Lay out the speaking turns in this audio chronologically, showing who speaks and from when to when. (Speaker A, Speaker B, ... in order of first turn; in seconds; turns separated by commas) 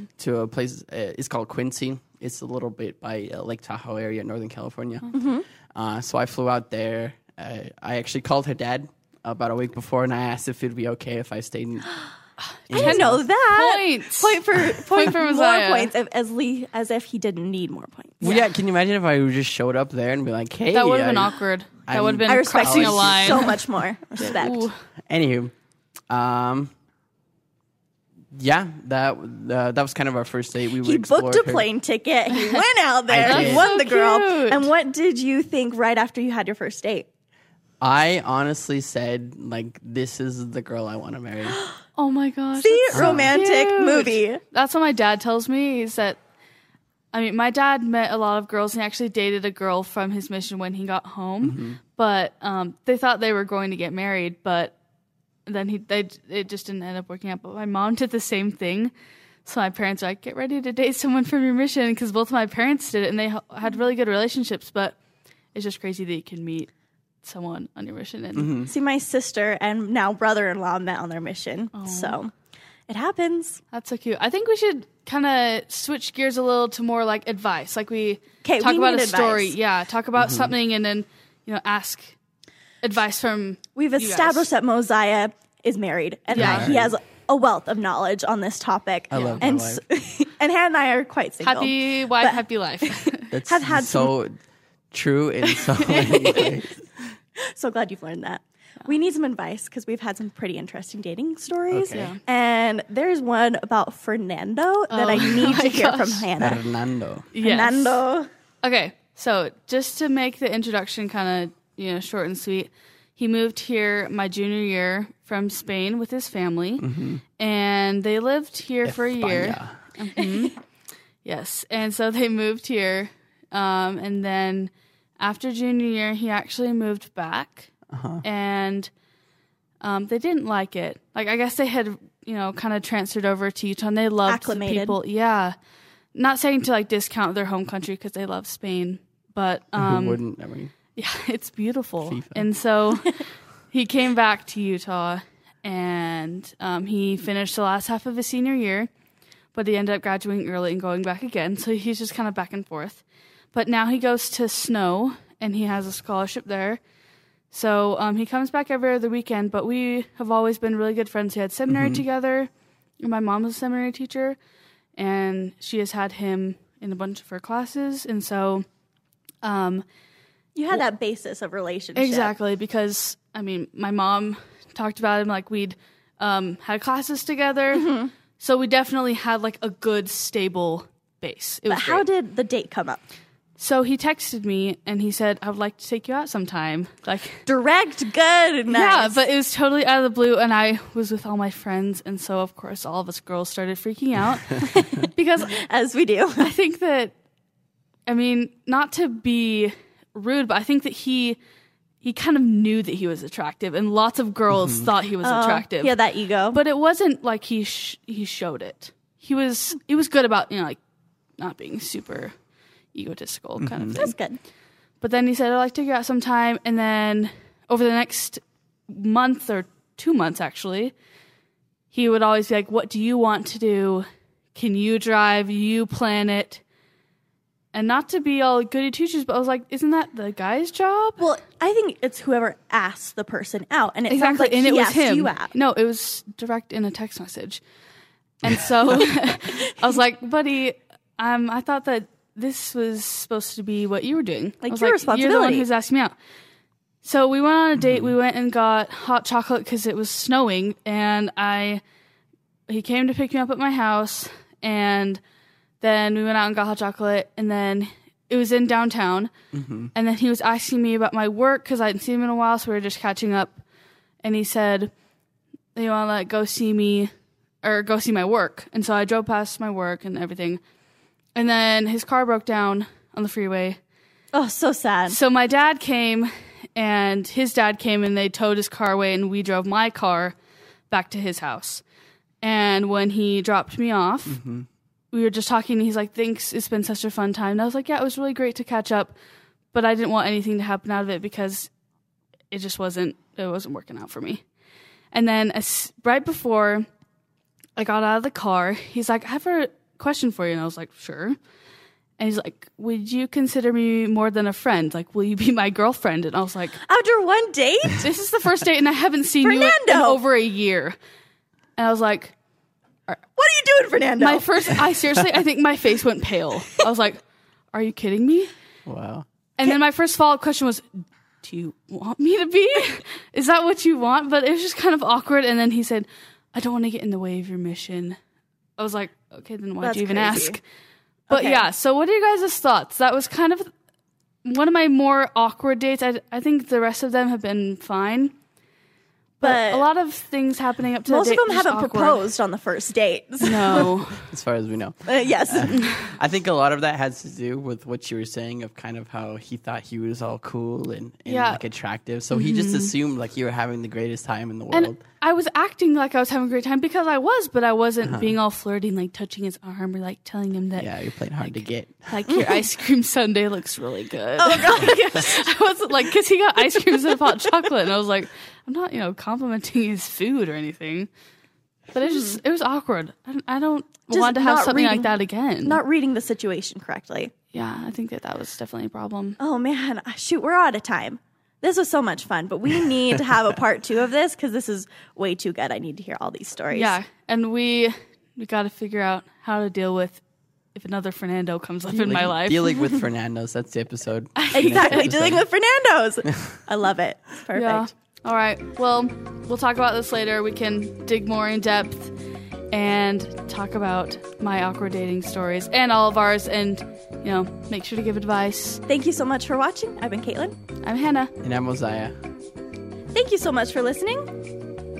Speaker A: 0.2-5.1, Speaker B: 5.1-5.5, Speaker A: 5.7-12.0, Speaker A: 12.7-13.2, Speaker C: 12.7-15.9, Speaker B: 12.8-18.3, Speaker A: 18.2-21.3, Speaker C: 18.2-18.5, Speaker C: 20.7-24.8, Speaker A: 21.9-23.5, Speaker B: 22.2-24.7, Speaker A: 25.1-25.5, Speaker A: 26.1-26.7, Speaker A: 28.3-31.7, Speaker B: 30.8-37.1, Speaker A: 33.1-33.7, Speaker C: 33.2-34.7, Speaker A: 37.8-41.6, Speaker C: 42.0-46.2, Speaker B: 42.6-44.4, Speaker A: 42.9-43.4, Speaker C: 47.1-54.8, Speaker A: 51.4-51.8, Speaker C: 55.5-58.9, Speaker C: 59.5-65.0, Speaker C: 65.5-66.7, Speaker C: 67.2-68.5, Speaker A: 68.3-68.7, Speaker B: 68.7-72.3, Speaker C: 71.7-72.2, Speaker B: 72.9-73.6, Speaker C: 73.7-82.2, Speaker B: 78.4-79.5, Speaker A: 80.2-80.5, Speaker C: 82.8-84.5, Speaker B: 83.8-94.1, Speaker A: 86.3-86.9, Speaker C: 86.4-86.7, Speaker A: 89.1-89.8, Speaker C: 89.1-89.5, Speaker C: 91.4-93.3, Speaker A: 93.3-94.3, Speaker A: 94.9-96.8, Speaker B: 95.5-96.5, Speaker C: 95.9-96.4, Speaker B: 97.5-106.6, Speaker A: 101.7-102.1, Speaker C: 101.9-102.2, Speaker C: 104.9-106.4, Speaker A: 106.4-107.3, Speaker C: 107.3-108.0, Speaker B: 107.4-108.3, Speaker C: 108.6-120.6, Speaker A: 116.8-117.2, Speaker A: 118.8-119.8, Speaker C: 121.2-127.7, Speaker A: 127.9-128.2, Speaker C: 128.2-128.9, Speaker C: 129.8-135.6, Speaker B: 134.3-135.0, Speaker C: 136.1-140.2, Speaker A: 139.8-140.7, Speaker C: 140.9-148.9, Speaker A: 142.1-142.5, Speaker C: 149.5-156.8, Speaker C: 157.5-164.4, Speaker A: 161.7-162.0, Speaker C: 165.0-168.7, Speaker C: 169.4-169.8, Speaker B: 170.6-172.3, Speaker C: 171.9-182.1, Speaker B: 177.7-178.1, Speaker B: 181.7-183.0, Speaker C: 183.6-187.4, Speaker B: 187.5-189.2, Speaker C: 188.7-195.6, Speaker B: 195.5-196.5, Speaker C: 196.4-197.1, Speaker C: 198.1-201.4, Speaker C: 202.0-206.0, Speaker A: 204.5-204.8, Speaker B: 205.2-206.6, Speaker C: 206.5-210.8, Speaker C: 211.4-212.3, Speaker C: 212.9-214.2, Speaker A: 213.6-214.0, Speaker B: 213.9-214.4, Speaker C: 215.0-220.9, Speaker C: 221.9-226.6, Speaker C: 227.7-231.2, Speaker B: 231.2-235.5, Speaker C: 234.1-237.6, Speaker C: 238.4-246.1, Speaker B: 244.6-245.7, Speaker C: 247.0-251.8, Speaker A: 247.8-248.2, Speaker C: 252.7-255.2, Speaker C: 255.8-259.3, Speaker A: 259.5-259.9, Speaker C: 259.9-263.6, Speaker C: 264.2-264.9, Speaker C: 265.8-267.1, Speaker C: 267.6-270.6, Speaker C: 271.4-273.8, Speaker B: 274.3-275.2, Speaker C: 275.1-280.4, Speaker C: 280.9-281.8, Speaker C: 282.4-284.4, Speaker A: 284.3-284.7, Speaker C: 285.1-289.1, Speaker C: 289.7-291.7, Speaker C: 292.5-294.4, Speaker C: 295.1-296.9, Speaker C: 297.8-301.4, Speaker C: 302.2-306.8, Speaker B: 306.8-308.1, Speaker C: 308.0-311.0, Speaker B: 309.4-310.2, Speaker C: 311.8-312.4, Speaker B: 313.4-314.8, Speaker C: 314.2-317.2, Speaker C: 317.7-318.5, Speaker A: 318.9-319.3, Speaker C: 319.6-328.2, Speaker C: 328.8-330.6, Speaker B: 329.8-330.6, Speaker B: 331.3-331.6, Speaker C: 331.3-333.7, Speaker C: 334.4-338.3, Speaker C: 339.4-342.3, Speaker B: 339.4-339.9, Speaker B: 341.1-343.9, Speaker C: 343.4-344.3, Speaker A: 344.0-355.0, Speaker B: 345.1-345.8, Speaker C: 345.7-346.1, Speaker C: 351.3-351.6, Speaker C: 352.3-352.9, Speaker C: 354.7-371.1, Speaker A: 358.0-358.4, Speaker A: 360.8-362.2, Speaker B: 362.3-362.6, Speaker B: 364.4-365.4, Speaker B: 366.8-367.4, Speaker C: 371.9-375.8, Speaker B: 372.1-372.3, Speaker B: 374.1-375.1, Speaker B: 375.6-377.3, Speaker C: 377.5-379.4, Speaker B: 379.4-387.0, Speaker C: 386.7-390.2, Speaker C: 390.7-392.8, Speaker A: 391.9-395.4, Speaker C: 394.4-395.1, Speaker B: 394.5-397.9, Speaker C: 397.5-402.1, Speaker C: 402.7-408.8, Speaker B: 408.9-410.6, Speaker C: 410.8-411.3, Speaker A: 411.4-412.2, Speaker B: 413.1-414.3